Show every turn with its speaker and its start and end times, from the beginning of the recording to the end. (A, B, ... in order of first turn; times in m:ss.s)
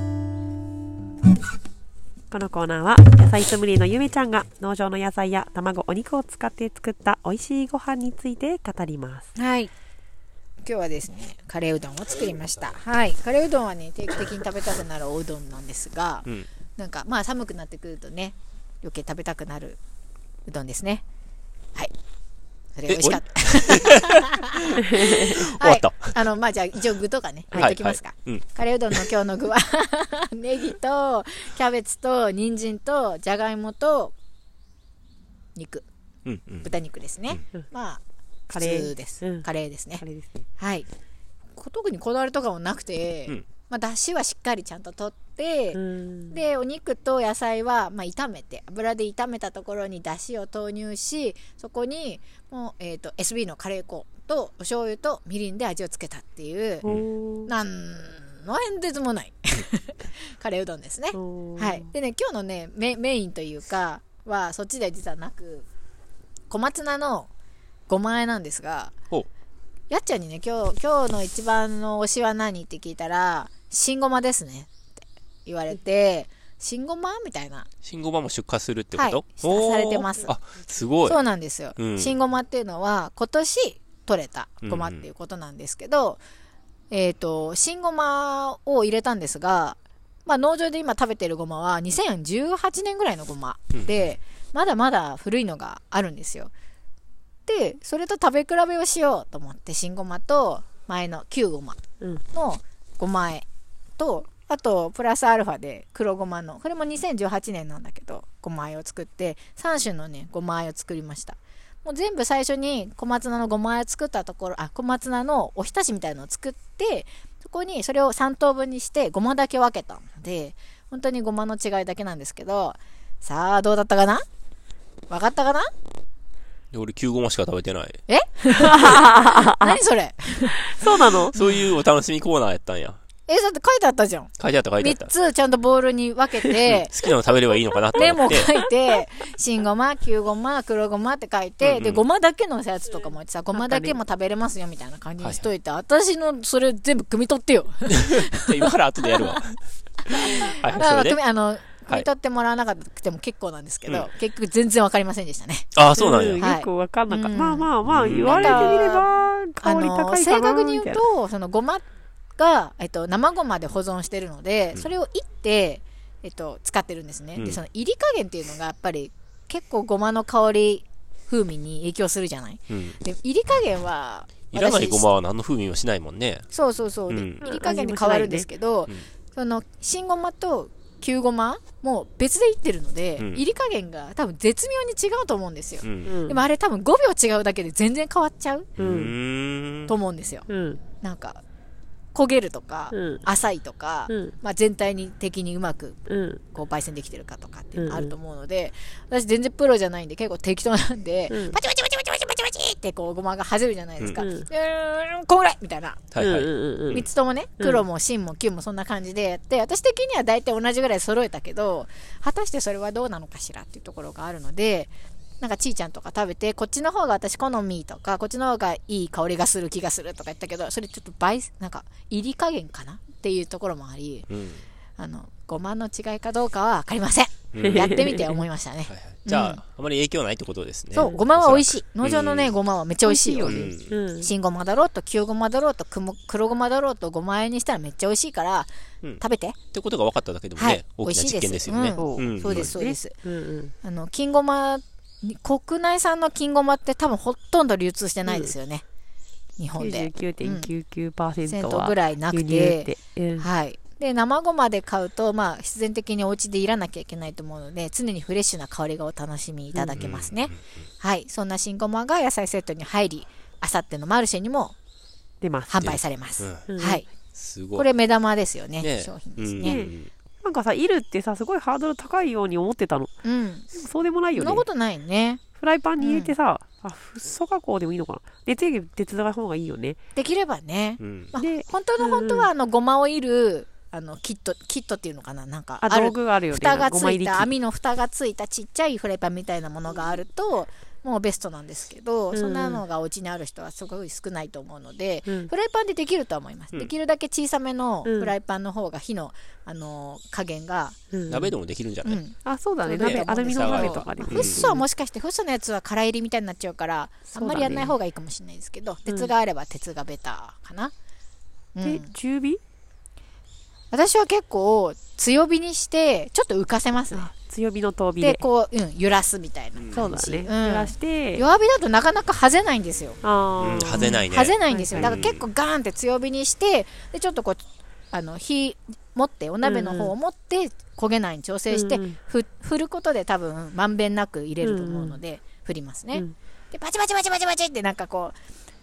0:02.3-0:09.3 A
0:09.4-0:09.7 B
0:10.6-0:19.8 B
0:20.5-0:21.0 B
0:22.8-0:34.1 B
0:22.9-0:26.2 C
0:27.5-0:29.0 C
0:35.6-0:35.9 B
0:36.2-0:36.7 C
0:36.6-0:40.0 B
0:38.5-0:39.4 A
0:40.0-0:40.4 A
0:40.6-0:40.9 B
0:41.6-0:56.9 B
0:45.7-0:46.4 A
0:56.8-0:57.5 A
0:57.5-1:05.7 B
1:01.1-1:01.9 A
1:06.5-1:07.3 B
1:07.9-1:08.9 B
1:09.9-1:17.7 B
1:17.8-1:21.2 C
1:19.0-1:20.4 B
1:21.0-1:26.2 B
1:21.8-1:22.2 C
1:24.6-1:25.1 C
1:26.9-1:36.5 B
1:37.5-1:43.5 B
1:44.0-2:04.2 B
2:05.1-2:05.7 B
2:06.7-2:08.0 C
2:08.1-2:11.6 B
2:08.5-2:09.8 A
2:10.6-2:11.4 A
2:11.3-2:13.0 C
2:13.3-2:17.0 B
2:14.4-2:15.1 C
2:16.7-2:18.5 C
2:18.0-2:29.4 B
2:21.6-2:22.0 C
2:23.5-2:24.0 A
2:25.2-2:25.5 C
2:27.9-2:29.6 C
2:30.1-2:35.8 B
2:30.1-2:31.2 C
2:35.8-2:36.5 C
2:36.0-2:41.0 A
2:36.4-2:39.1 B
2:37.9-2:38.9 C
2:39.6-2:41.8 B
2:42.4-2:55.1 B
2:47.4-2:47.6 C
2:52.7-2:53.0 C
2:54.5-2:56.5 C
2:56.5-3:08.7 B
2:57.1-2:57.4 C
2:57.4-2:58.5 A
3:05.8-3:06.1 C
3:06.1-3:06.4 A
3:08.8-3:09.9 C
3:08.8-3:09.1 A
3:09.9-3:10.5 B
3:10.5-3:10.8 A
3:11.0-3:11.4 B
3:12.2-3:16.0 B
3:12.9-3:13.2 A
3:14.1-3:14.3 A
3:16.1-3:16.4 A
3:16.5-3:26.1 B
3:17.8-3:18.2 A
3:21.3-3:21.6 A
3:24.2-3:24.5 A
3:26.1-3:27.1 C
3:26.2-3:27.0 A
3:26.9-3:44.3 B
3:44.3-3:44.7 C
3:45.0-3:49.6 B
3:47.5-3:48.1 C
3:47.6-3:48.4 A
3:48.9-3:52.6 C
3:50.9-3:59.6 B
3:53.0-3:54.3 A
3:53.4-3:54.0 C
3:59.7-4:02.8 C
4:00.6-4:03.2 B
4:02.0-4:03.7 A
4:03.8-4:08.8 B
4:08.3-4:08.5 A
4:09.6-4:10.7 B
4:09.8-4:13.5 A
4:11.5-4:24.8 B
4:19.8-4:20.0 A
4:20.0-4:20.5 C
4:25.4-4:25.9 A
4:25.7-4:27.0 B
4:25.8-4:26.7 C
4:26.7-4:27.0 A
4:27.3-4:27.9 C
4:27.7-4:29.8 B
4:28.8-4:30.1 C
4:29.6-4:33.1 A
4:33.2-4:33.7 B
4:33.7-4:34.6 A
4:34.4-4:35.4 B
4:35.6-4:40.0 A
4:36.0-4:36.4 B
4:40.2-5:01.0 B
4:41.0-4:41.3 C
4:41.4-4:42.5 A
4:45.8-4:47.5 A
4:52.3-4:52.8 A
4:58.0-4:58.3 A
5:01.1-5:01.5 A
5:01.3-5:02.2 C
5:02.0-5:10.9 B
5:02.4-5:04.8 A
5:03.0-5:04.6 C
5:07.3-5:07.9 A
5:11.8-5:12.1 B
5:11.8-5:12.6 A
5:13.9-5:17.3 B
5:17.1-5:18.4 A
5:18.2-5:23.2 B
5:19.8-5:20.1 C
5:19.9-5:21.5 A
5:23.2-5:25.2 A
5:23.6-5:25.5 C
5:23.9-5:38.4 B
5:29.6-5:30.1 A
5:31.7-5:32.2 A
5:34.6-5:35.2 A